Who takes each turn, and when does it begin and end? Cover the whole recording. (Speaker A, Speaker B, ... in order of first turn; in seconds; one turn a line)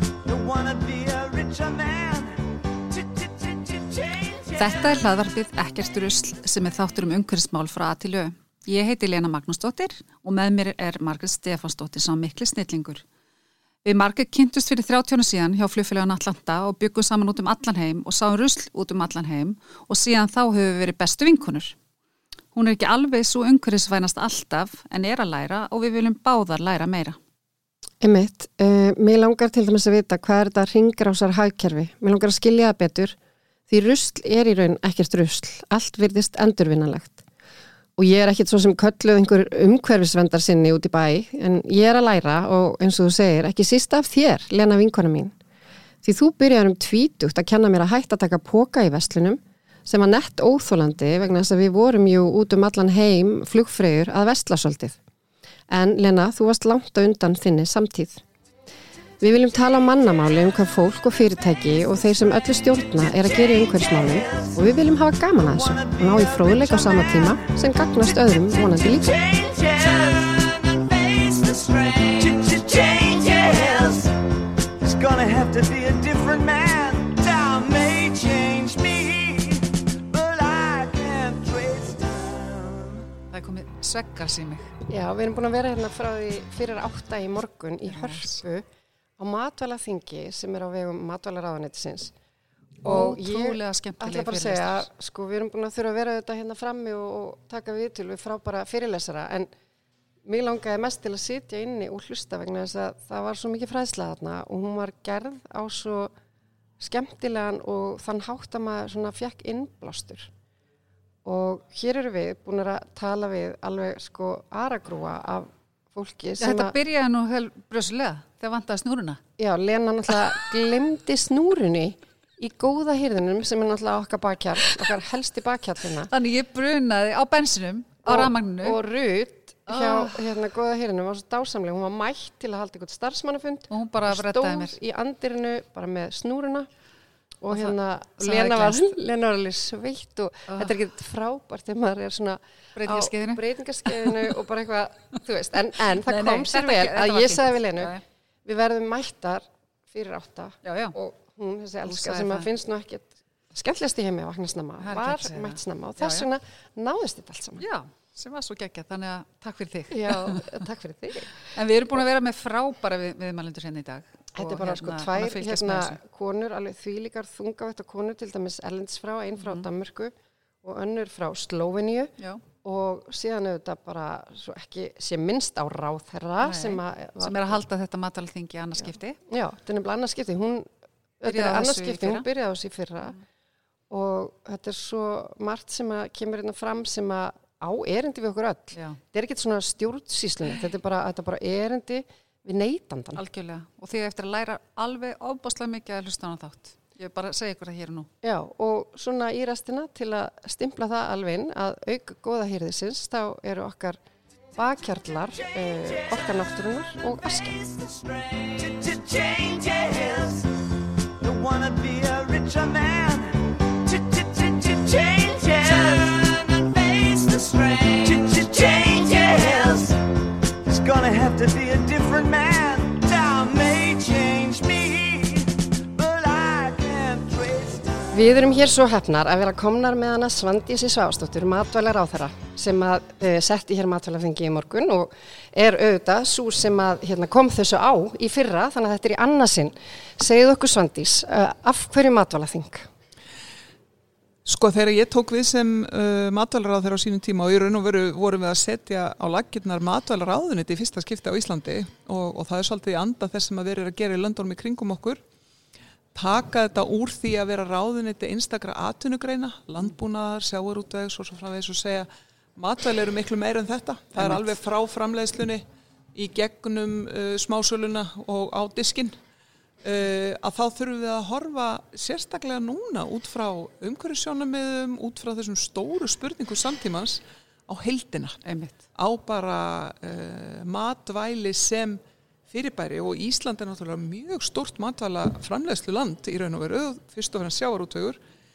Speaker A: 0.2-4.9
Speaker B: 4.5-13.0
Speaker B: 13.8-21.8
Speaker B: 22.5-27.2
Speaker C: 28.0-33.1
Speaker C: 33.7-37.2
Speaker C: 38.0-45.3
Speaker C: 46.0-55.0
Speaker C: 55.7-58.2
Speaker C: 59.2-69.2
Speaker A: 63.2-64.6
Speaker A: 65.4-67.5
Speaker A: 68.4-74.1
Speaker A: 74.8-83.0
Speaker B: 83.3-84.7
Speaker C: 84.9-88.6
Speaker B: 87.8-88.4
Speaker C: 89.2-92.1
Speaker C: 92.8-99.5
Speaker B: 92.8-94.9
Speaker C: 100.2-106.1
Speaker C: 106.8-110.3
Speaker C: 111.2-116.7
Speaker B: 116.4-119.2
Speaker C: 119.4-126.1
Speaker B: 126.1-128.8
Speaker C: 128.0-136.7
Speaker B: 129.7-130.2
Speaker B: 133.7-134.8
Speaker C: 137.4-147.9
Speaker B: 137.5-138.9
Speaker B: 142.7-144.2
Speaker B: 146.0-148.0
Speaker C: 148.4-157.6
Speaker B: 150.6-150.9
Speaker B: 151.8-152.5
Speaker B: 154.8-156.2
Speaker B: 157.6-160.6
Speaker C: 159.9-161.3
Speaker B: 161.4-166.0
Speaker C: 164.3-177.6
Speaker B: 169.4-169.7
Speaker B: 176.4-179.2
Speaker C: 179.3-180.7
Speaker C: 181.2-183.2
Speaker B: 181.2-182.3
Speaker C: 183.9-193.2
Speaker B: 188.7-189.0
Speaker B: 193.1-198.1
Speaker C: 198.2-204.0
Speaker C: 204.5-207.6
Speaker A: 207.5-210.5
Speaker A: 211.2-220.0
Speaker A: 220.6-228.2
Speaker C: 228.1-242.9
Speaker D: 244.4-255.2
Speaker D: 256.1-265.6
Speaker D: 266.1-269.2
Speaker D: 269.8-278.4
Speaker B: 278.4-278.8
Speaker D: 278.9-288.2